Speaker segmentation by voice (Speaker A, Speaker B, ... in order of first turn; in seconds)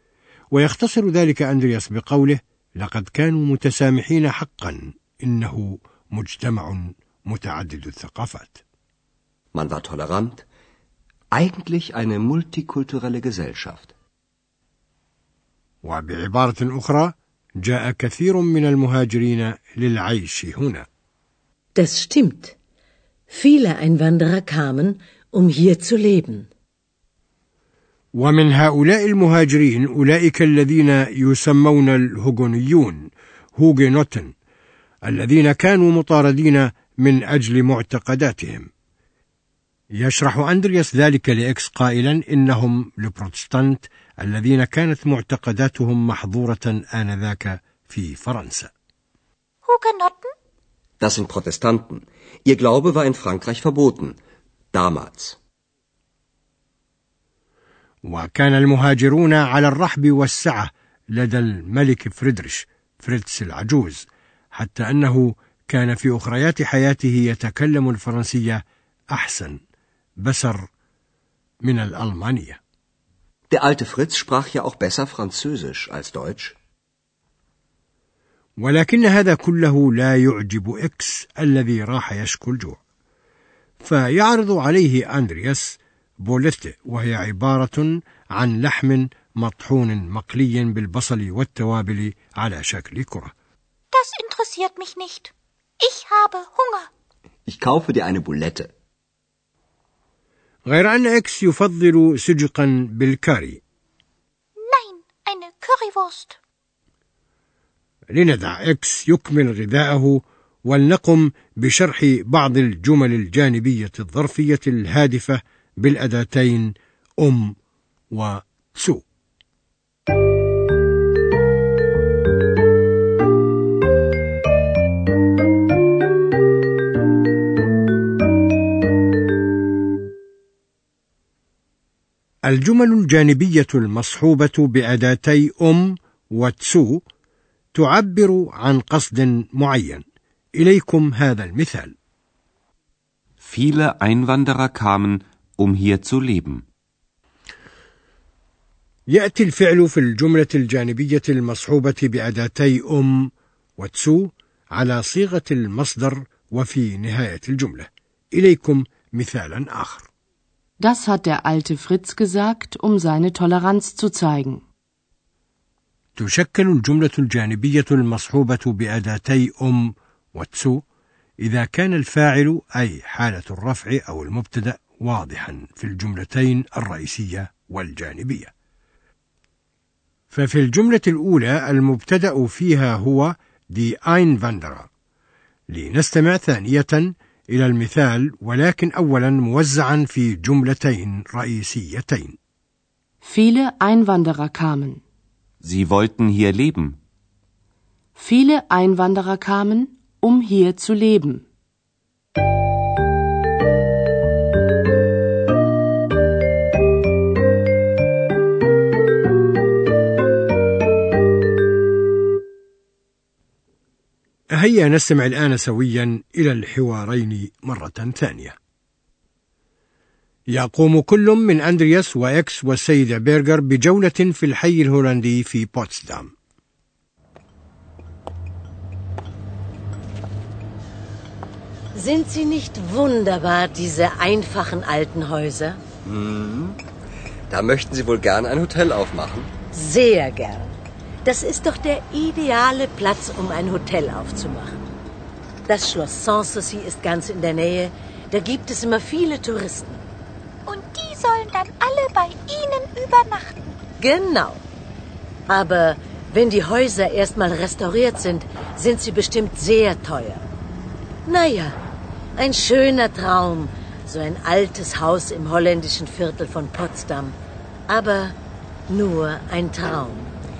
Speaker A: 0.5-8.6, 15.8-20.9, 28.2-34.3, 35.0-38.7, 39.9-48.7, 58.0-69.6, 70.2-70.7, 71.6-72.6, 78.6-82.8, 83.8-93.3, 100.7-103.6, 108.1-117.5, 118.1-119.0, 132.4-137.0, 137.7-140.0, 140.6-141.9, 149.1-160.1, 166.2-170.8, 171.4-178.5, 180.3-184.9, 185.7-192.4, 214.5-218.6, 220.5-226.3
Speaker B: 9.5-10.4, 11.3-13.9, 51.0-54.1, 54.7-55.4, 73.5-76.5, 97.5-98.7, 236.0-236.8, 237.5-239.5
Speaker C: 21.7-22.5, 23.3-26.5, 231.9-235.8, 239.7-240.7, 241.2-244.9, 245.7-250.0, 254.0-254.6, 255.5-260.5, 261.2-261.8, 262.4-267.4, 267.9-268.4, 268.9-270.3
Speaker D: 49.6-50.3, 93.9-96.9, 104.6-106.3, 250.7-253.7
Speaker E: 143.4-146.7, 195.6-197.0
Speaker F: 160.8-164.6, 193.2-195.0, 198.2-201.4